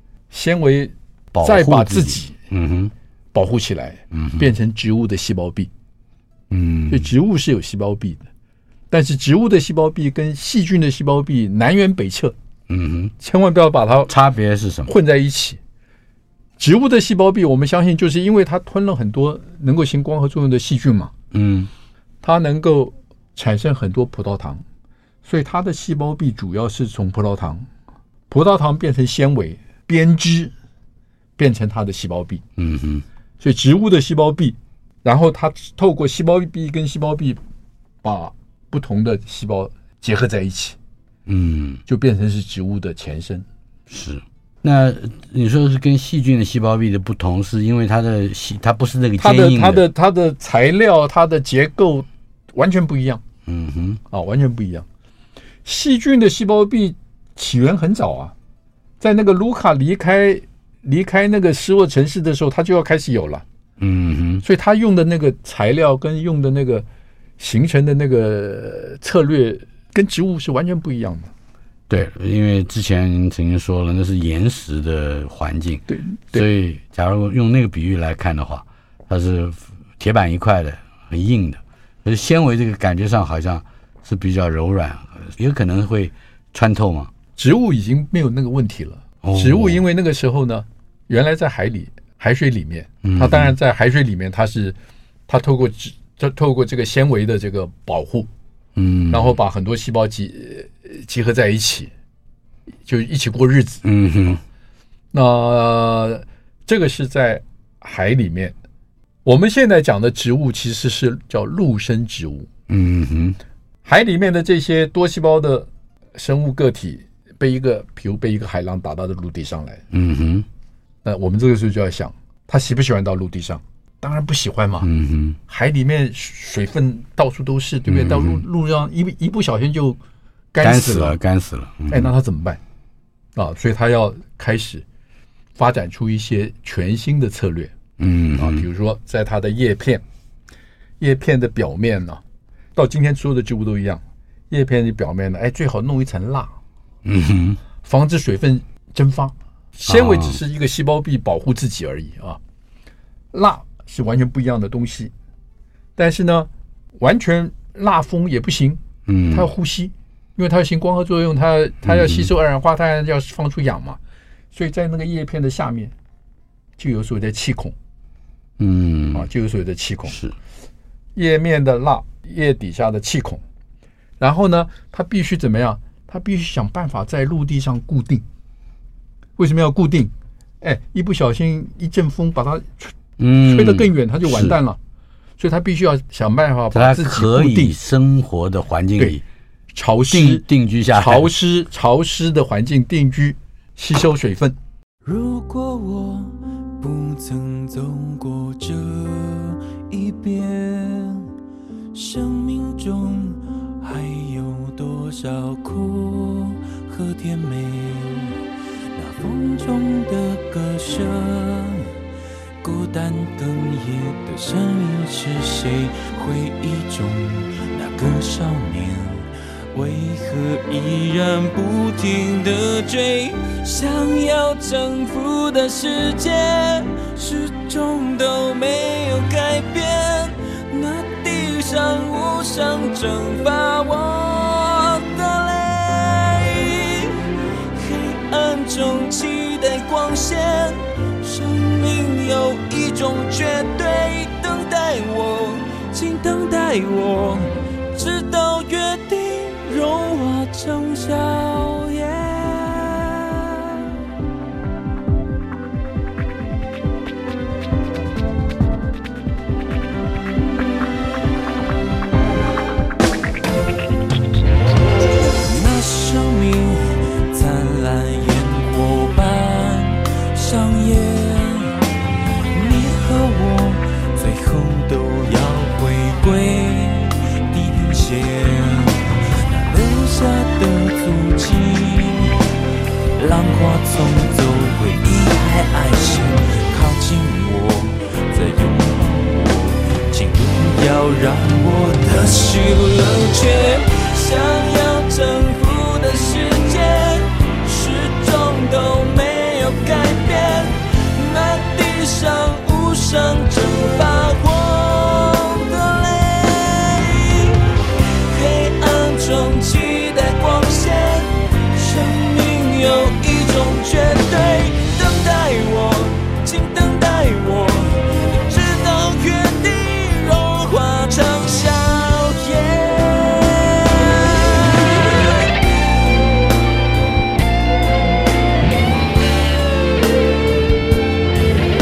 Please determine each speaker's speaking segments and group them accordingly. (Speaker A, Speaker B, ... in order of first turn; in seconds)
Speaker A: 0.3-2.3, 3.3-5.7, 6.9-8.2, 8.9-12.3, 13.2-14.1, 14.9-15.6, 16.6-21.1, 22.2-24.6, 25.2-27.7, 28.3-30.5, 31.4-32.4, 33.4-37.4, 38.0-40.8, 41.9-43.5, 49.2-53.2, 54.1-54.9, 55.6-58.3, 59.0-63.4, 64.4-66.8, 67.4-71.3, 75.9-76.5, 87.4-94.8, 95.3-98.3, 99.1-101.9, 102.9-103.8, 105.1-108.5, 109.2-112.5, 113.8-119.8, 121.0-124.9, 125.5-130.0, 130.5-131.2, 131.9-132.6, 133.4-134.8, 135.6-137.7, 138.4-140.0, 141.0-142.2, 142.8-146.5, 147.8-152.4, 153.3-155.1, 156.0-164.0, 164.5-165.9, 166.8-167.7, 169.1-170.2, 171.2-173.4, 174.2-178.2, 179.4-180.1, 180.6-184.8, 185.4-187.8, 189.7-194.6
Speaker B: 1.3-2.9, 4.1-4.5, 6.5-7.1, 12.7-13.1, 14.1-14.9, 21.3-21.7, 32.6-33.0, 41.3-41.8, 43.9-49.8, 53.5-54.0, 63.8-64.4, 71.9-87.1, 89.2-89.8, 93.0-93.6, 98.8-99.4, 103.8-104.4, 112.7-113.4, 119.9-120.5, 124.8-125.4, 127.9-128.4, 130.6-132.1, 138.0-138.7, 147.1-147.6, 149.9-150.4, 159.1-159.5, 161.8-162.3, 168.6-169.3, 170.1-170.3, 183.2-184.6, 186.7-189.2, 190.1-191.3
Speaker C: 195.0-201.3, 201.9-208.4, 208.9-211.9, 212.6-254.0, 265.4-271.8, 272.5-282.5, 283.2-325.6